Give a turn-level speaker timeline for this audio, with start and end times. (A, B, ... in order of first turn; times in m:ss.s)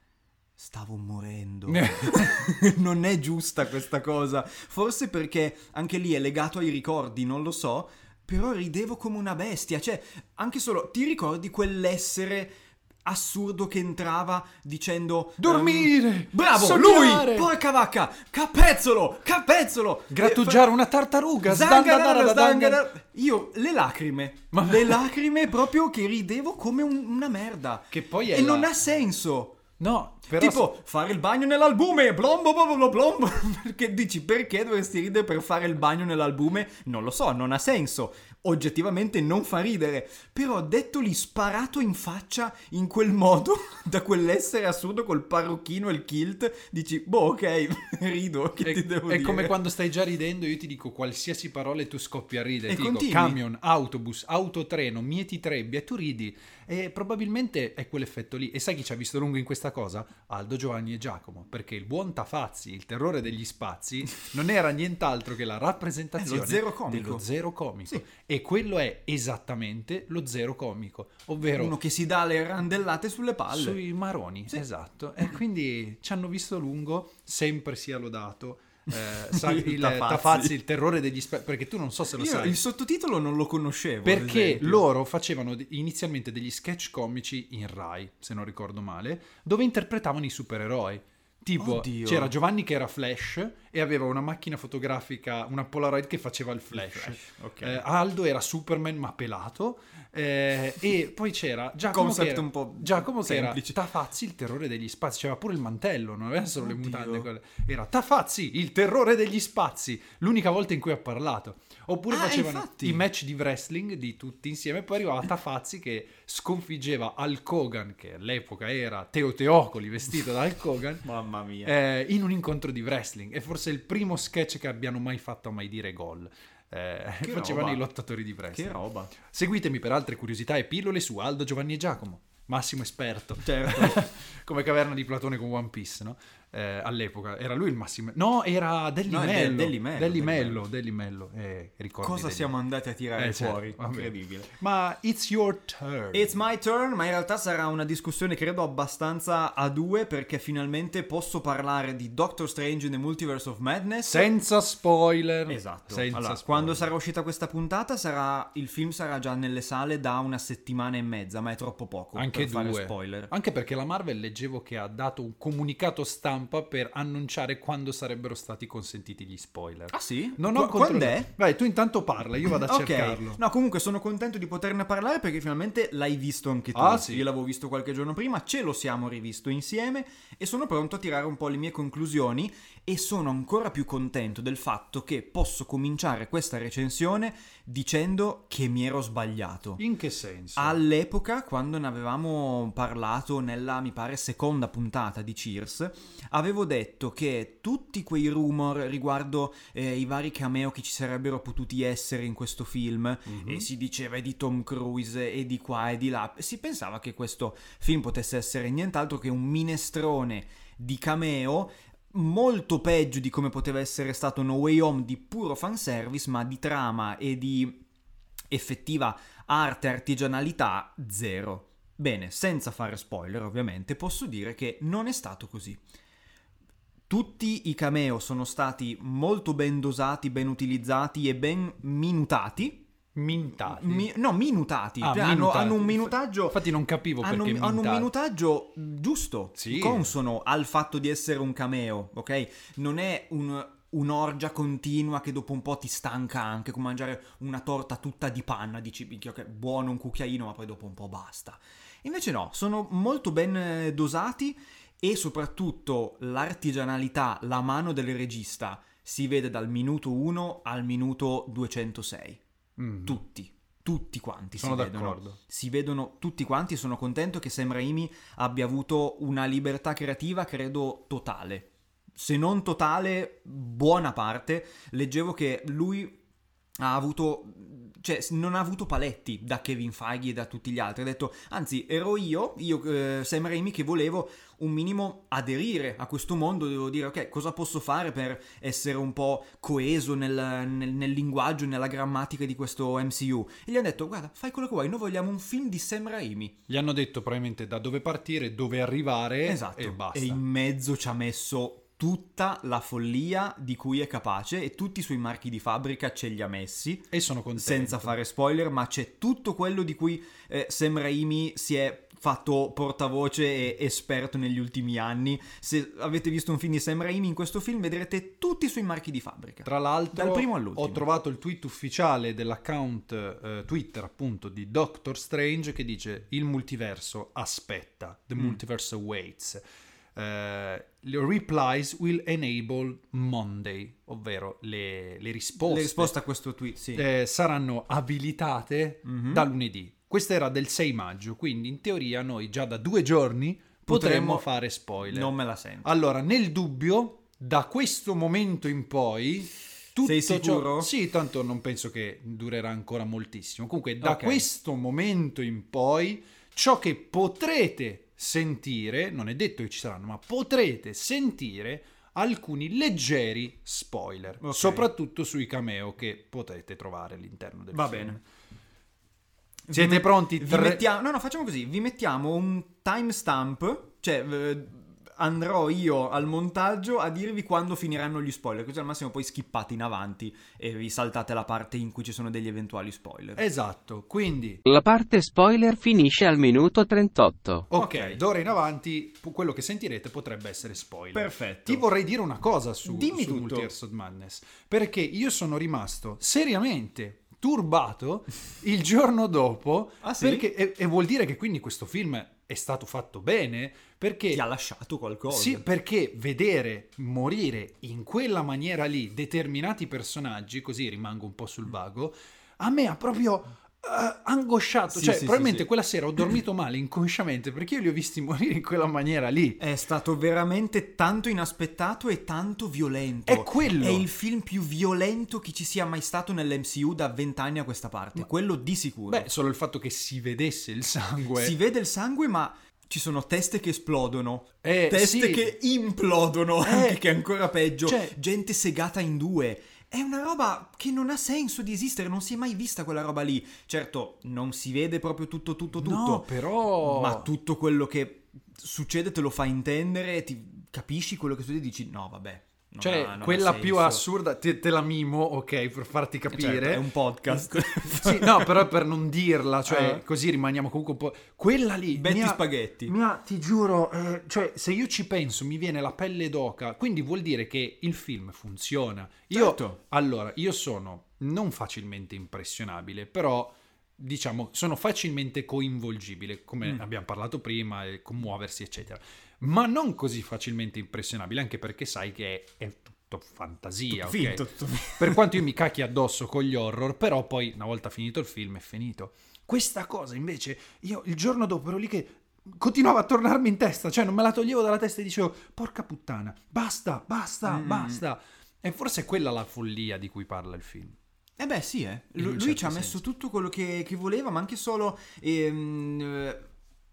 0:00.6-0:20.7 A
0:01.7-0:02.4 B
0:15.4-0:17.5 B
0:20.1-0:22.8 B
0:21.4-0:29.6 A
0:24.5-0:25.1 B
0:27.9-0:28.7 B
0:29.8-0:30.7 B
0:30.3-0:49.6 A
0:48.6-1:11.8 B
0:52.7-0:53.4 A
1:06.2-1:07.2 A
1:11.6-1:13.8 A
1:13.5-1:22.6 B
1:19.3-1:20.5 A
1:22.2-1:24.8 A
1:24.0-2:01.1 B
1:31.6-1:32.3 A
1:36.7-1:37.8 A
1:41.9-1:43.8 A
1:46.6-1:47.3 A
1:52.1-1:53.1 A
2:01.0-2:01.7 A
2:01.6-2:22.5 B
2:07.2-2:07.8 A
2:08.5-2:09.1 A
2:13.4-2:14.1 A
2:19.1-2:20.6 A
2:22.0-2:24.5 A
2:23.2-2:26.4 B
2:26.1-2:34.3 A
2:34.1-2:36.9 B
2:35.5-2:43.3 A
2:42.2-2:53.4 B
2:49.9-2:51.3 A
2:52.6-3:09.8 A
2:56.8-2:57.3 B
3:09.8-3:10.8 B
3:10.6-3:37.8 A
3:23.3-3:23.7 B
3:38.5-3:45.8 A
3:47.1-3:52.9 A
3:53.2-3:54.1 B
3:53.7-3:56.6 A
3:55.0-3:58.1 B
3:57.2-4:22.4 A
3:59.6-4:00.1 B
4:22.8-4:23.2 B
4:23.0-4:36.2 A
4:24.6-4:25.4 B
4:36.8-4:56.6 A
4:56.7-5:00.4 B
4:59.4-5:21.0 A
5:07.1-5:08.1 B
5:19.6-5:29.6 B
5:30.2-5:36.2 B
5:35.6-5:37.0 A
5:36.9-6:08.2 B
5:39.0-5:39.5 A
5:43.9-5:44.5 A
5:45.1-5:45.9 A
5:50.0-5:50.9 A
5:54.0-5:54.4 A
6:04.4-6:04.9 A
6:07.7-6:08.2 A
6:09.7-6:23.4 A
6:09.7-6:10.9 B
6:23.4-6:24.6 B
6:24.6-6:27.7 C
6:27.7-6:44.4 B
6:27.7-6:28.2 A
6:31.1-6:31.8 A
6:32.8-6:33.7 A
6:40.0-6:40.5 A
6:44.3-6:45.6 A
6:45.3-6:59.6 B
6:54.9-6:55.7 A
6:59.6-7:09.3 A
7:03.3-7:04.1 B
7:09.1-7:11.6 B
7:11.4-7:34.0 A
7:14.6-7:15.5 B
7:16.6-7:17.0 B
7:17.8-7:18.2 B
7:25.8-7:27.3 B
7:32.8-8:21.0 B
7:36.3-7:38.6 A
7:39.7-7:40.0 A
7:41.9-7:42.9 A
7:49.3-7:49.8 A
8:03.9-8:05.4 A
8:17.4-8:18.0 A
8:21.4-8:26.4 A
8:22.2-8:23.0 B